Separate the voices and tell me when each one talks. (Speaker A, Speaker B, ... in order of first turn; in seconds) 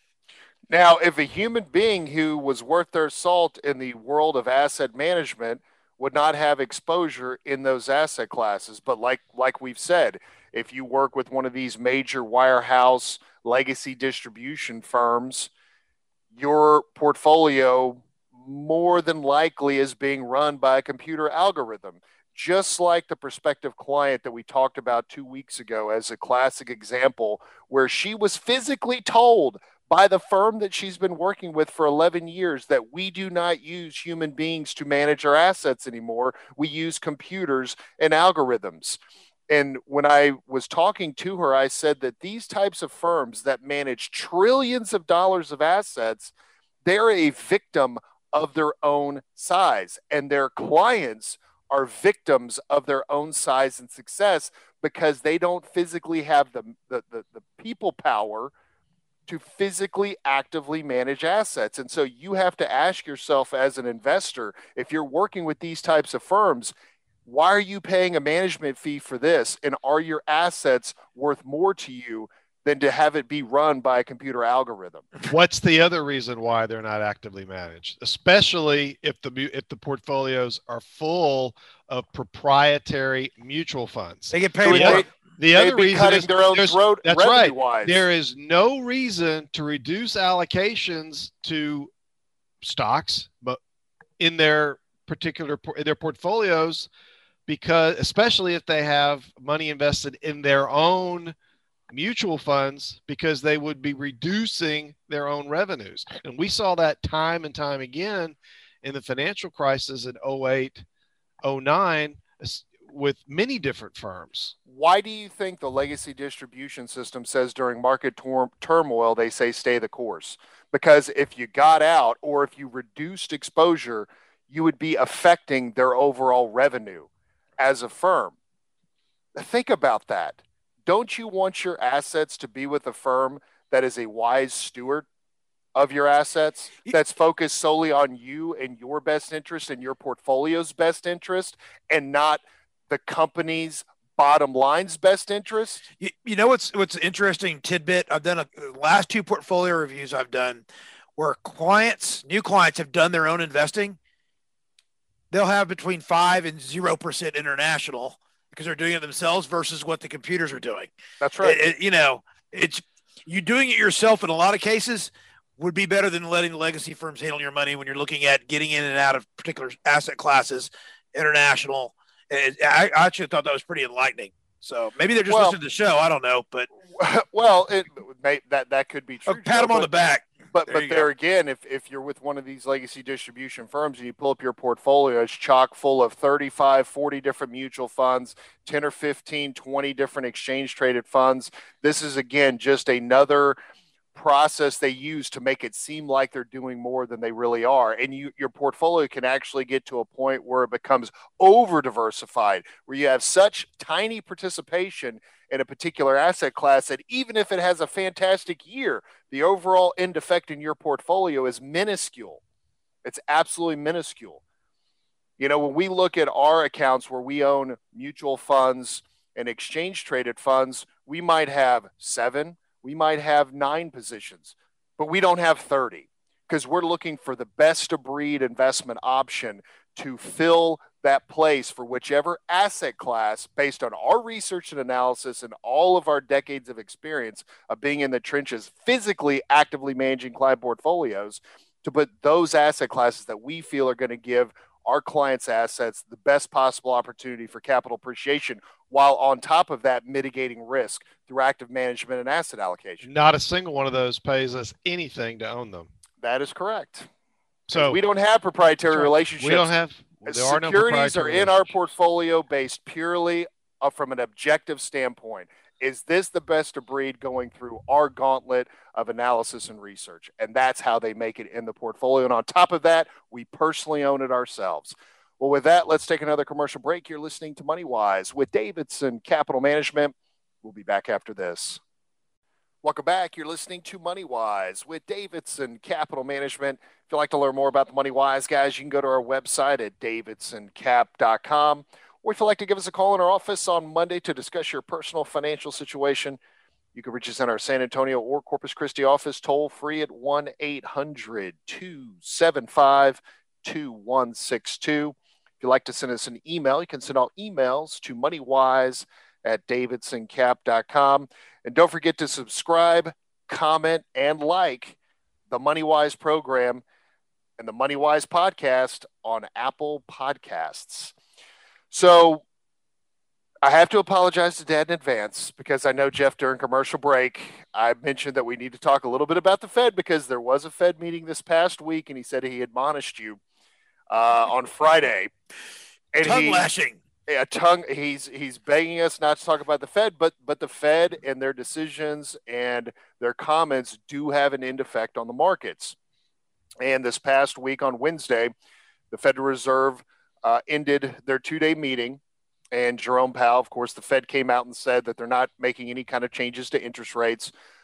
Speaker A: 0.7-15.5, 16.3-39.0, 39.5-46.3, 46.8-58.5, 59.3-66.7, 67.2-75.1, 84.6-88.0, 114.7-128.3, 129.3-135.1, 135.7-145.8, 161.2-161.6, 175.3-175.6, 176.9-179.9, 180.5-193.6, 194.1-212.4, 213.0-214.4, 215.4-253.1, 256.2-257.1, 257.7-259.7, 260.2-281.8, 282.8-296.4, 296.9-314.9, 315.5-316.8, 317.6-321.1, 321.9-322.4, 323.6-333.4, 334.1-335.3, 336.1-336.7, 337.3-345.9, 346.8-348.5, 349.1-352.2, 352.7-357.5
Speaker B: 75.2-91.9, 92.6-93.6, 94.2-96.9, 97.5-101.3, 101.9-110.8, 111.4-114.5, 253.0-255.9, 257.7-258.0, 258.9-261.5
Speaker C: 84.3-85.1, 146.0-150.6, 151.2-154.0, 155.3-160.9, 161.4-176.7, 179.3-181.1, 336.2-337.0